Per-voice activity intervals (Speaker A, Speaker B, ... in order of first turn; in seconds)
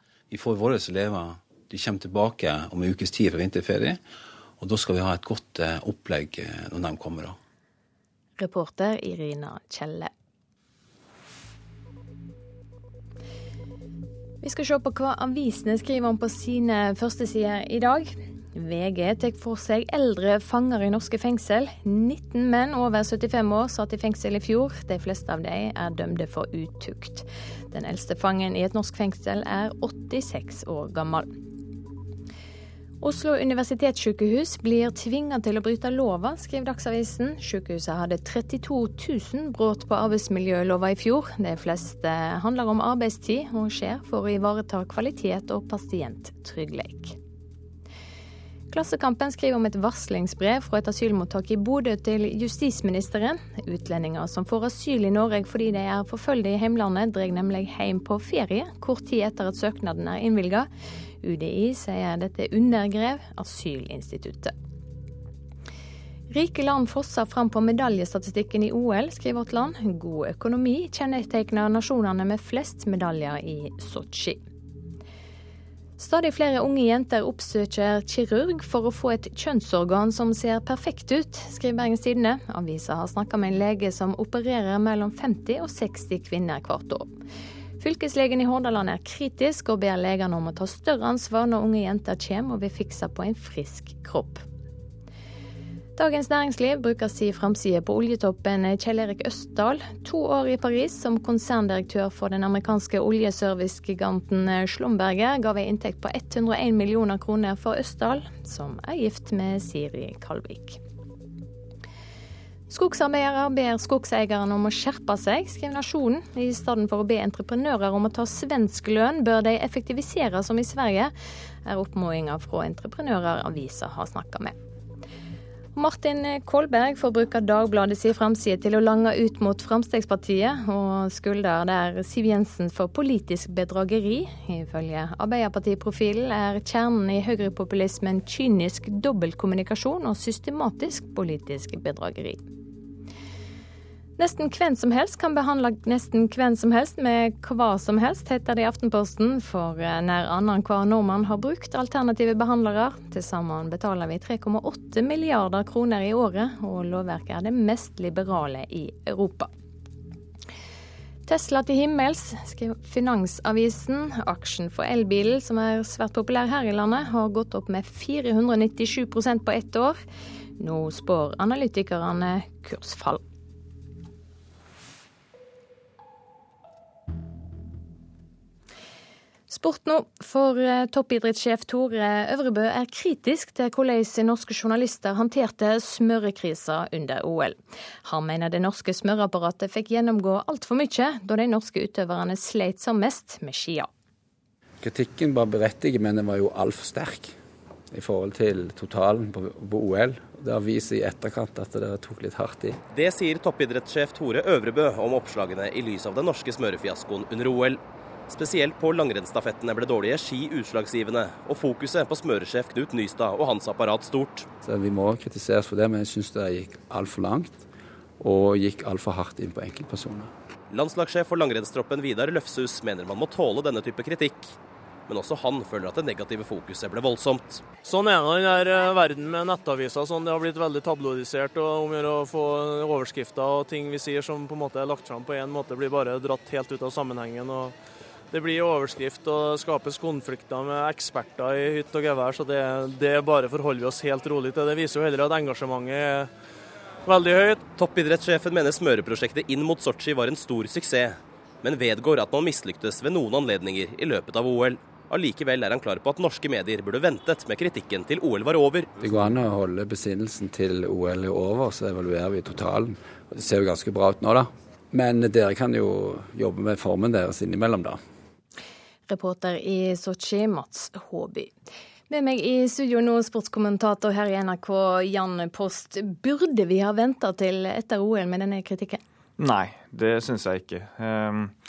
Speaker A: 0.3-4.0, 4.6-7.4
Speaker B: 8.4-10.1, 14.4-31.3, 33.0-47.1, 48.7-60.7, 61.2-64.5, 66.3-74.4, 76.0-87.1, 87.8-94.4, 96.0-110.8, 112.7-121.1, 121.6-124.5, 125.7-142.4, 144.2-159.5, 161.3-170.0, 170.6-173.2, 179.5-193.9, 269.1-271.5, 272.1-279.0
Speaker C: 194.8-197.3, 197.9-202.8, 214.6-217.6, 218.2-220.3, 259.0-268.0
Speaker D: 202.9-214.5, 220.7-224.5, 225.1-227.6, 247.7-258.9
Speaker E: 227.8-237.8, 238.3-246.3, 247.1-247.7
Speaker F: 279.4-281.5